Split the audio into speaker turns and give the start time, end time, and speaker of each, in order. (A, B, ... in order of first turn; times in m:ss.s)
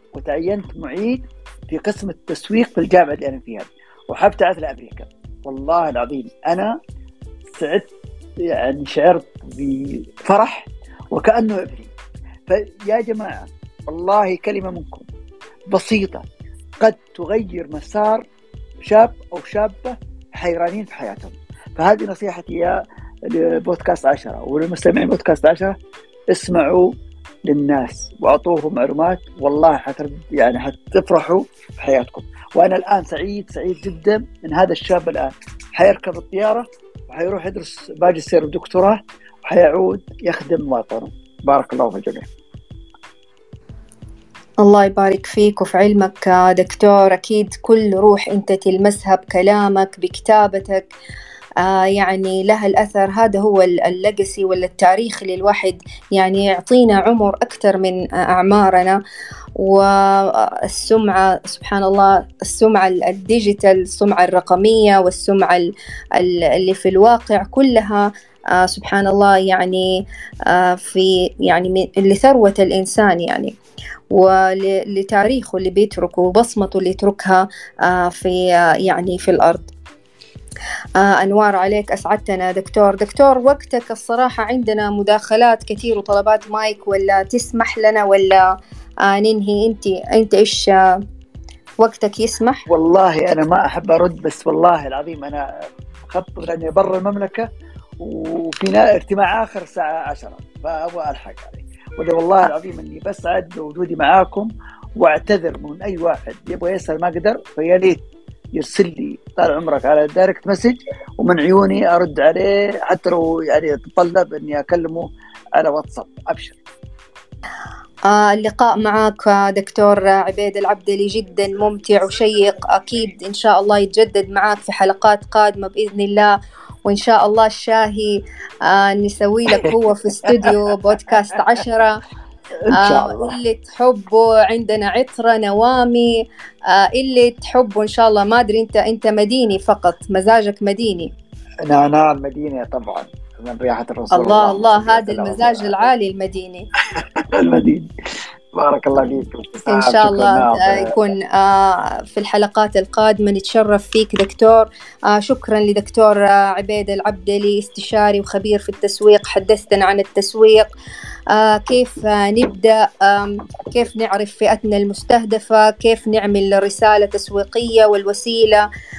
0:00.1-0:06.8 A
0:07.5-0:07.9 A
0:08.4-0:11.9 A
0:12.5-0:15.0 A
0:15.7-0:16.2 A
0:16.8-0:18.2 A
0:18.8-0:25.8 A
0:26.3-0:42.3 A
0:44.6-0:50.9 B
0:51.6-0:59.0 B
0:59.6-1:09.9 B
1:10.5-1:13.5 B
1:14.1-1:19.7 B
1:21.0-1:28.4 B
1:29.0-1:31.0 B
1:31.8-1:32.6 B
1:32.7-1:35.4 A
1:36.0-1:37.5 A
1:38.0-1:48.0 A
1:48.5-1:56.6 A
1:58.0-2:06.3 B
2:06.8-2:12.0 B
2:12.6-2:13.4 A
2:12.8-2:21.1 B
2:21.6-2:25.9 A
2:24.1-2:26.7 B
2:26.9-2:27.9 A
2:28.5-2:30.9 A
2:29.7-2:40.7 B
2:41.3-2:48.6 B